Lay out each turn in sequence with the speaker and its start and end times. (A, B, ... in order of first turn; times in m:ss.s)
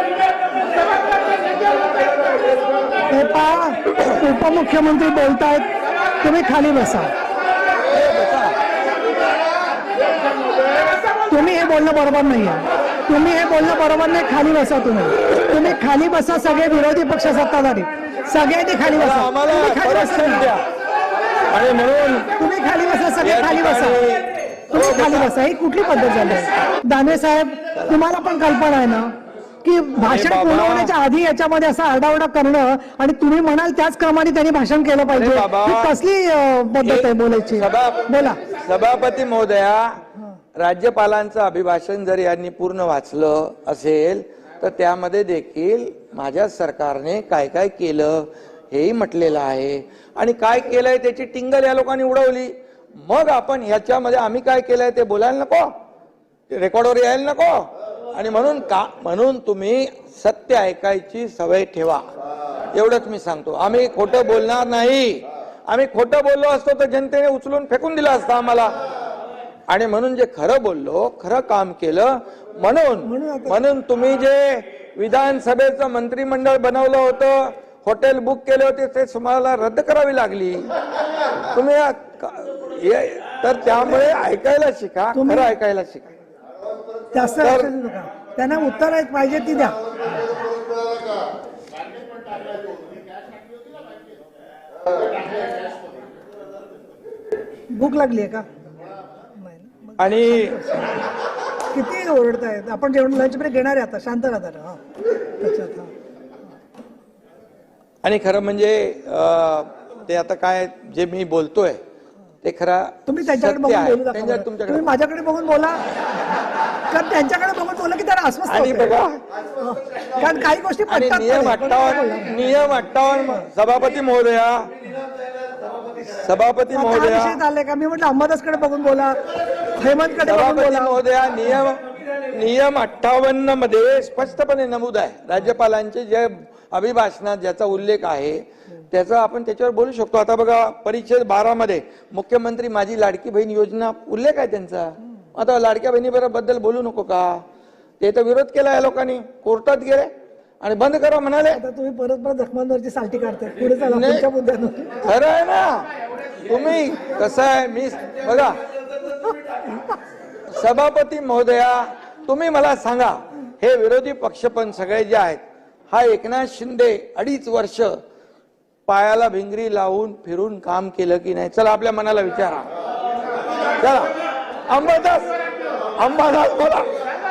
0:03.1-0:05.7 A
0:06.2-0:07.1 A
0:07.9-0:08.6 B
0:11.3-0:20.5 A
0:18.9-0:20.6 B
0:21.5-0:22.3 B
0:22.4-0:24.0 A
0:23.2-0:25.3 B
0:24.7-0:29.1 A
0:29.6-0:38.4 A
0:30.0-0:30.9 B
0:35.1-0:35.9 B
0:36.8-0:40.0 B
0:40.6-0:55.7 B
0:56.5-1:02.0 B
1:02.7-1:08.7 B
1:09.7-1:20.7 B
1:13.0-1:13.6 A
1:21.5-1:26.1 B
1:25.1-1:25.5 A
1:27.1-1:29.8 A
1:27.4-1:27.7 B
1:37.8-1:38.4 A
1:39.4-1:40.9 A
1:40.0-1:40.6 B
1:41.7-1:44.8 A
1:45.4-1:45.9 A
1:48.0-1:51.8 B
1:52.4-1:54.9 B
1:53.1-1:55.8 A
1:56.9-1:58.9 A
1:58.5-1:59.2 B
1:59.6-2:03.4 A
2:00.9-2:04.7 B
2:06.2-2:07.4 B
2:06.7-2:09.2 A
2:09.8-2:11.0 A
2:10.2-2:27.4 B
2:28.0-2:30.1 B
2:30.6-2:31.6 B
2:31.5-2:35.0 A
2:33.7-2:34.2 B
2:35.0-2:35.8 B
2:36.4-2:38.6 B
2:40.5-2:47.9 B
2:48.9-2:52.6 B
2:53.8-2:54.1 B
2:54.7-2:55.3 B
2:56.0-2:56.9 B